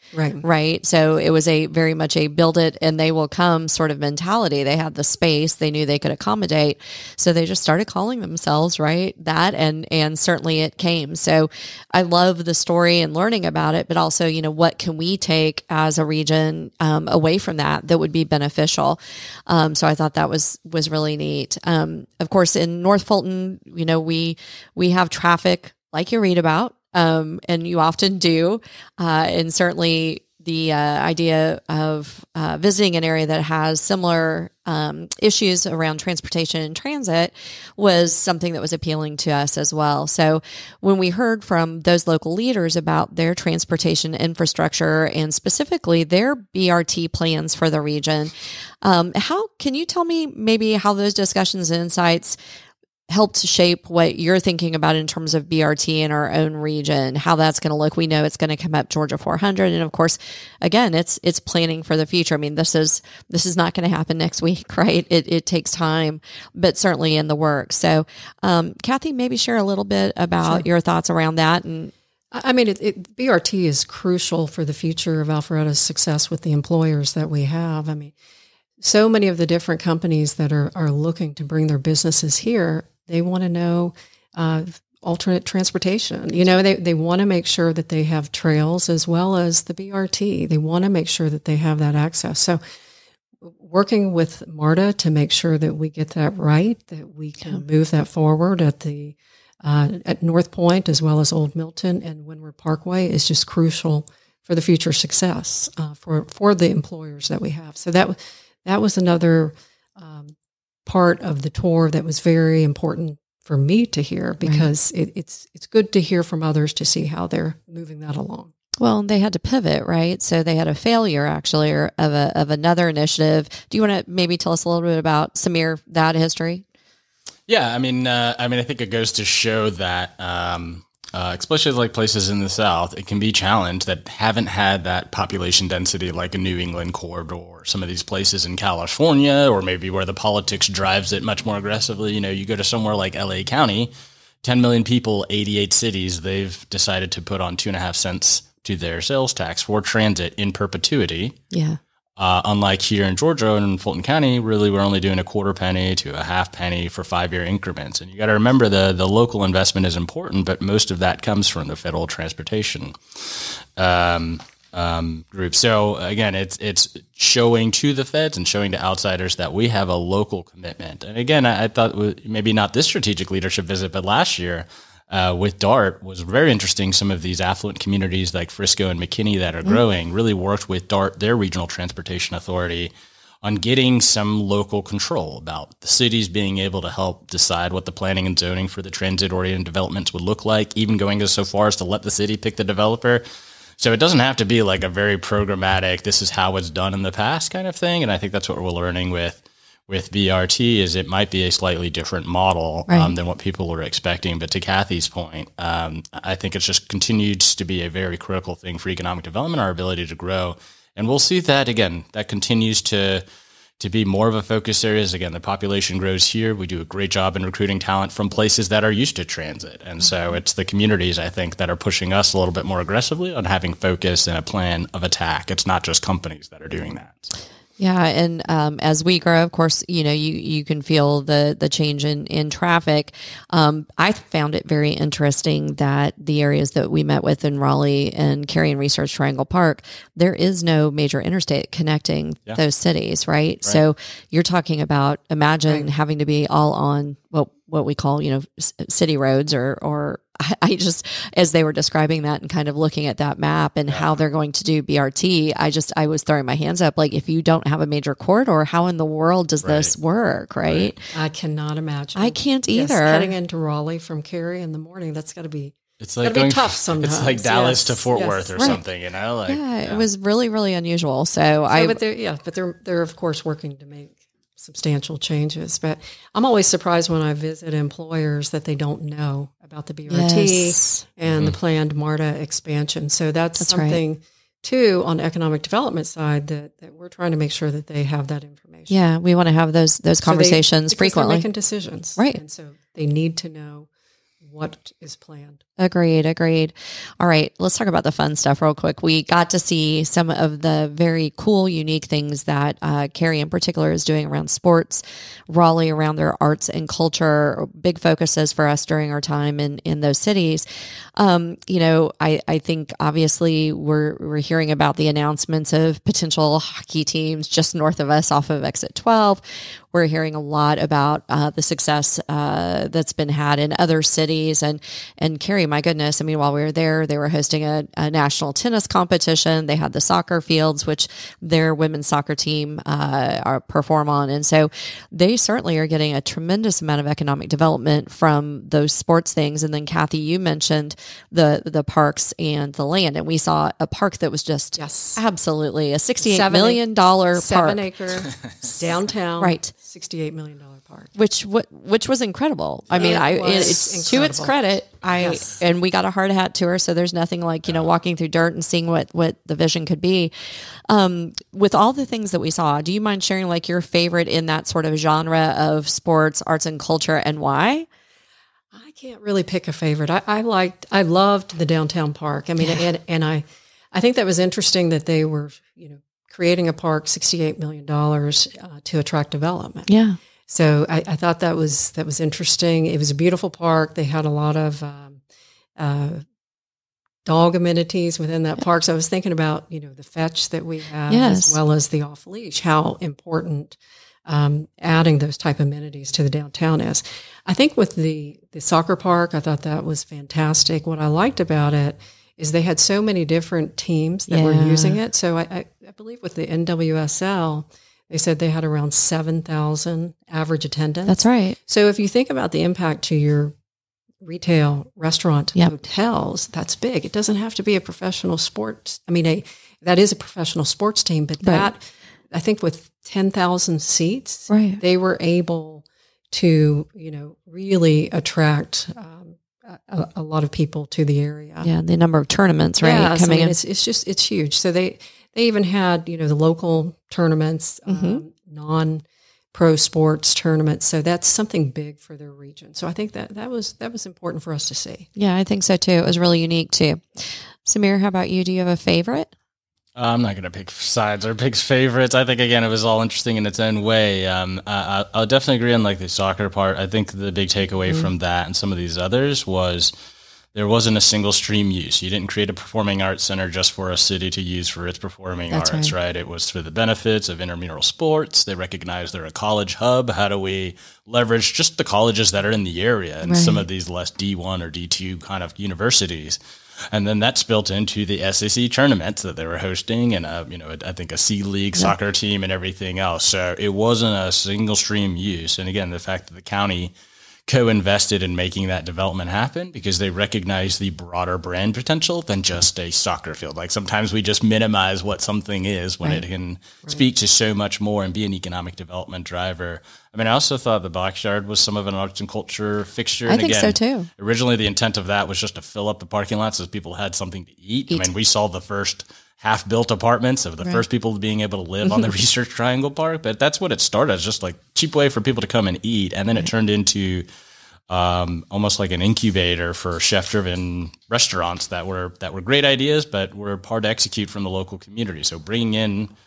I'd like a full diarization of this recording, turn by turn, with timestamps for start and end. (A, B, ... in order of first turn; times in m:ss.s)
0:00.1-0:00.4 A
0:00.4-0:52.4 B
0:53.1-1:11.9 B
1:12.3-1:18.1 A
1:18.8-1:32.6 A
1:33.4-1:50.4 A
1:50.9-1:58.5 A
1:58.8-2:06.6 B
2:07.5-2:23.9 C
2:24.4-2:31.4 C
2:31.5-2:31.8 B
2:32.2-3:02.9 C
3:03.4-3:13.2 C
3:13.8-3:33.2 C
3:22.9-3:23.1 B
3:33.8-3:47.3 C
3:47.8-4:21.0 B
4:13.9-4:14.2 C
4:19.6-4:19.9 C
4:20.7-4:20.9 C
4:21.1-4:28.8 A
4:22.2-4:23.3 B
4:26.0-4:30.0 C
4:29.5-4:32.0 B
4:31.7-4:49.0 A
4:40.1-4:41.0 B
4:41.3-4:41.6 C
4:43.6-4:44.0 B
4:48.9-4:51.5 B
4:50.2-4:53.9 A
4:54.4-4:55.6 A
4:55.8-5:10.7 B
5:11.2-5:47.9 B
5:44.8-5:45.2 A
5:46.2-5:51.1 A
5:49.4-5:49.7 B
5:51.2-6:00.3 B
5:52.9-5:54.6 A
5:55.1-5:55.6 A
6:00.9-6:07.9 B
6:08.7-6:19.9 A
6:19.9-6:20.2 B
6:20.5-6:25.2 A
6:25.8-6:26.2 A
6:27.3-6:53.6 A
6:31.1-6:31.6 B
6:44.3-6:45.0 B
6:51.1-6:51.6 B
6:54.2-7:11.7 A
7:01.4-7:01.7 B
7:04.5-7:04.8 B
7:11.6-7:13.6 B
7:12.8-7:25.1 A
7:17.9-7:18.2 B
7:25.2-7:29.3 B
7:30.0-7:39.9 C
7:40.5-7:56.4 C
7:45.5-7:45.9 B
7:53.2-7:53.6 B
7:56.9-8:06.9 C
8:07.5-8:37.2 C
8:23.3-8:24.1 B
8:37.9-8:46.1 C